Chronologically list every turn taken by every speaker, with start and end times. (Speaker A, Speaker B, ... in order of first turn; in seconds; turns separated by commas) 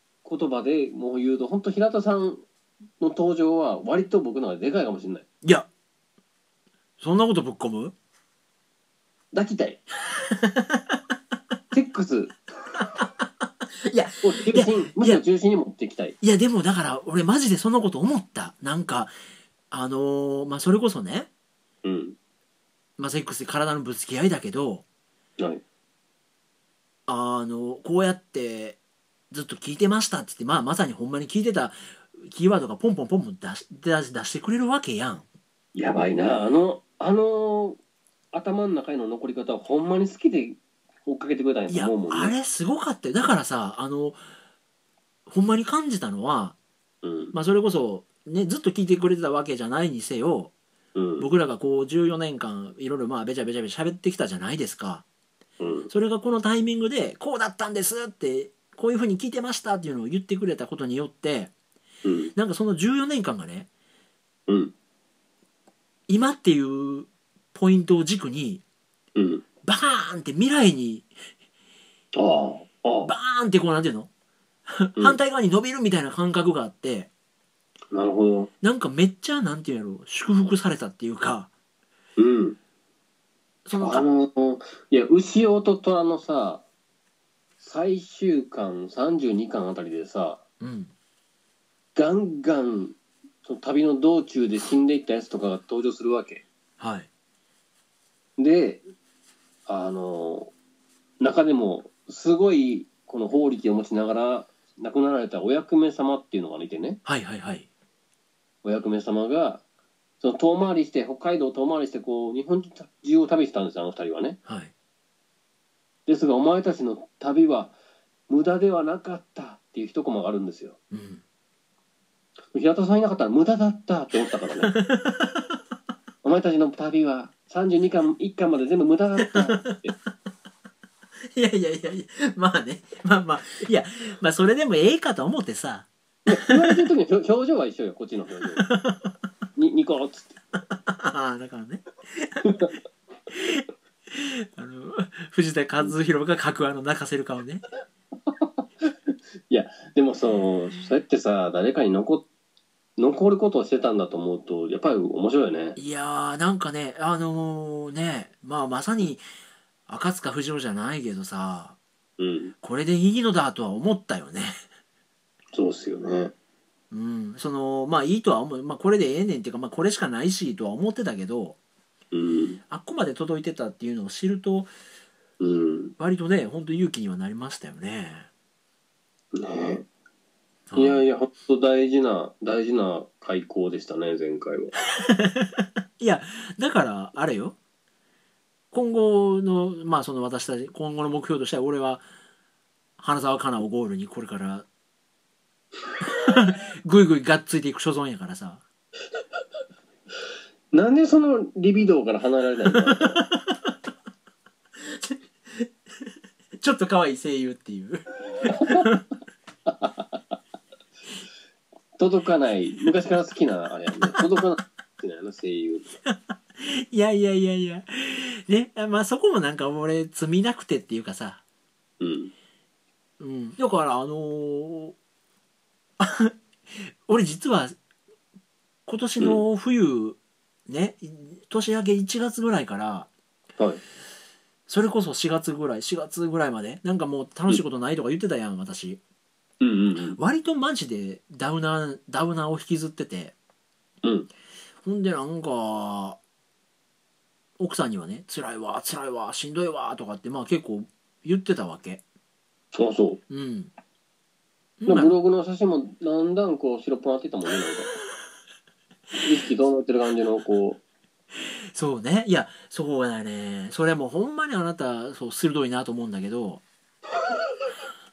Speaker A: 0.2-2.4, Speaker A: 3.0-5.2, Speaker B: 5.4-5.7, Speaker B: 7.0-7.9, Speaker A: 9.3-9.8, Speaker B: 10.1-11.0, Speaker A: 11.7-12.3, Speaker B: 13.8-15.2, Speaker A: 14.2-16.1, Speaker B: 16.2-19.1, Speaker B: 19.7-21.3, Speaker A: 21.8-22.2, Speaker B: 23.0-24.8, Speaker B: 27.1-28.8, Speaker B: 29.3-35.2, Speaker A: 35.7-37.8, Speaker A: 38.3-42.3, Speaker B: 41.7-44.2, Speaker B: 45.3-46.5, Speaker A: 47.0-47.3, Speaker B: 47.3-50.5, Speaker A: 51.0-51.3, Speaker B: 51.2-55.0, Speaker A: 55.6-55.9, Speaker B: 55.9-61.5, Speaker A: 62.0-62.3, Speaker B: 62.3-63.7, Speaker A: 64.5-64.7, Speaker B: 66.1-68.6, Speaker A: 69.2-69.4, Speaker B: 69.6-71.1, Speaker A: 72.2-73.1, Speaker B: 73.0-74.1, Speaker B: 74.7-77.1, Speaker A: 77.9-78.5, Speaker B: 78.6-81.5, Speaker A: 82.2-82.6, Speaker B: 83.7-84.0, Speaker A: 83.8-86.6, Speaker A: 87.6-90.4, Speaker B: 90.6-90.9, Speaker A: 92.0-96.4, Speaker B: 96.8-97.1, Speaker A: 98.4-98.8, Speaker A: 99.7-100.5, Speaker A: 101.2-107.0, Speaker B: 107.0-107.7, Speaker A: 108.6-109.6, Speaker A: 110.2-114.4, Speaker B: 114.5-114.7, Speaker A: 116.1-117.7, Speaker A: 118.3-120.8, Speaker B: 120.9-121.2, Speaker A: 122.5-124.7, Speaker B: 124.7-125.5, Speaker A: 126.2-129.9, Speaker B: 131.3-136.8, Speaker A: 136.2-138.7, Speaker B: 138.6-139.1, Speaker A: 139.6-140.4, Speaker B: 140.7-142.7, Speaker A: 142.4-142.7, Speaker B: 143.3-147.6, Speaker A: 149.5-152.2, Speaker A: 153.0-155.8, Speaker B: 155.8-159.2, Speaker B: 159.9-161.8, Speaker A: 162.2-162.5, Speaker B: 162.6-164.6, Speaker A: 165.5-166.3, Speaker B: 166.9-171.6, Speaker A: 172.1-172.6, Speaker B: 172.7-174.7, Speaker A: 175.4-175.9, Speaker B: 176.0-178.3, Speaker A: 179.3-179.9, Speaker B: 180.7-181.1, Speaker A: 180.8-184.7, Speaker B: 185.0-187.6, Speaker B: 188.7-192.0, Speaker B: 193.0-194.7, Speaker B: 196.0-198.6, Speaker A: 200.7-203.2, Speaker B: 203.0-203.7, Speaker B: 204.8-206.1, Speaker B: 206.6-209.0, Speaker A: 208.4-208.9, Speaker A: 209.7-210.2, Speaker A: 212.0-215.9, Speaker B: 216.0-221.4, Speaker A: 222.0-222.3, Speaker B: 223.2-224.9, Speaker B: 226.0-227.8, Speaker B: 228.9-233.1, Speaker B: 234.7-239.0, Speaker A: 239.6-240.2, Speaker B: 240.2-243.3, Speaker B: 244.8-246.2, Speaker B: 247.6-252.0, Speaker A: 252.7-253.2, Speaker B: 253.3-253.7, Speaker B: 254.8-255.1, Speaker A: 254.9-257.9, Speaker A: 259.2-260.8, Speaker B: 261.7-266.6